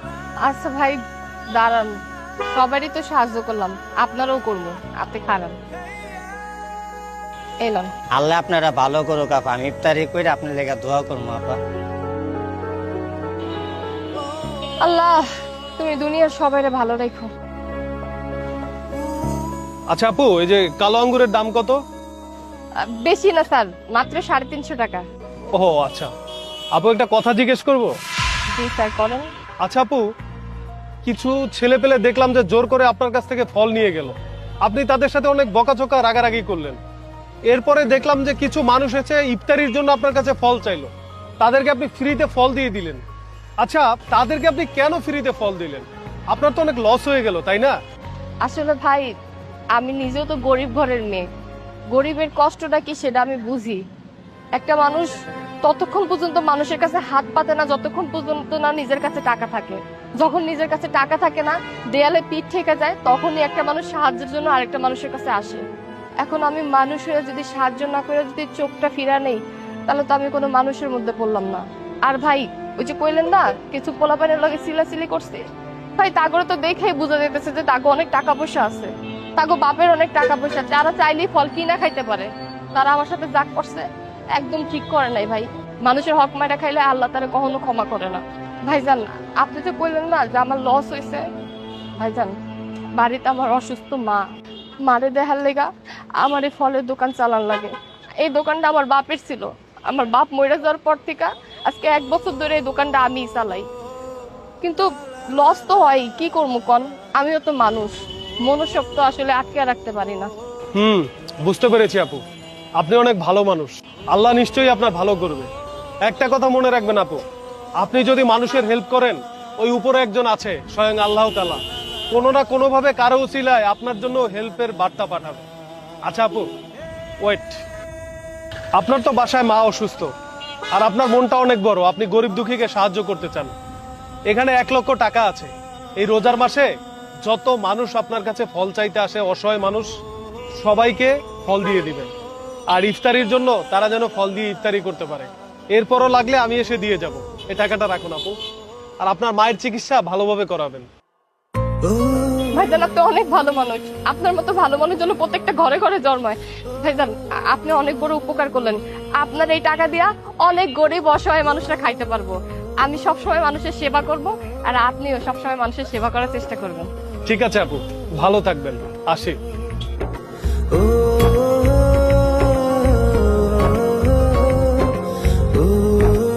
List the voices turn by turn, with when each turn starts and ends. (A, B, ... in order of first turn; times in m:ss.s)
0:00.4-0:01.0 A
0:01.6-0:01.9 A
0:02.5-0:05.6 A
0:07.6-0:07.9 A
0:08.2-0:11.6 B
0:14.8-0:15.2 A
0:15.8-0:17.3 A
0:19.9-0:21.8 C
0:22.8-0:25.0 A
0:25.6-0:26.1 C
0:26.7-0:27.9 C
0:28.5-0:29.3 A
0:29.6-0:30.0 C
0:31.0-0:36.8 C
0:37.5-0:43.0 C
0:43.6-0:47.7 C
0:48.4-0:49.0 A
0:49.8-0:51.3 A
0:51.9-0:53.8 A
0:54.6-1:05.6 A
1:06.2-1:15.4 A
1:16.0-1:31.2 A
1:32.0-1:32.4 A
1:33.0-1:34.2 A
1:34.8-1:43.7 A
1:44.6-1:47.9 A
1:48.4-1:50.3 A
1:50.8-1:52.2 C
1:52.8-1:55.5 C
1:56.0-1:57.2 C
1:57.8-2:01.6 C
2:02.1-2:05.4 C
2:06.0-2:06.5 C
2:07.2-2:07.6 C
2:08.8-2:10.1 C
2:10.8-2:13.5 C
2:14.3-2:16.7 C
2:17.2-2:19.9 C
2:20.6-2:22.1 C
2:22.7-2:28.4 C
2:29.0-2:30.9 C
2:32.5-2:46.9 A
2:47.3-2:49.4 C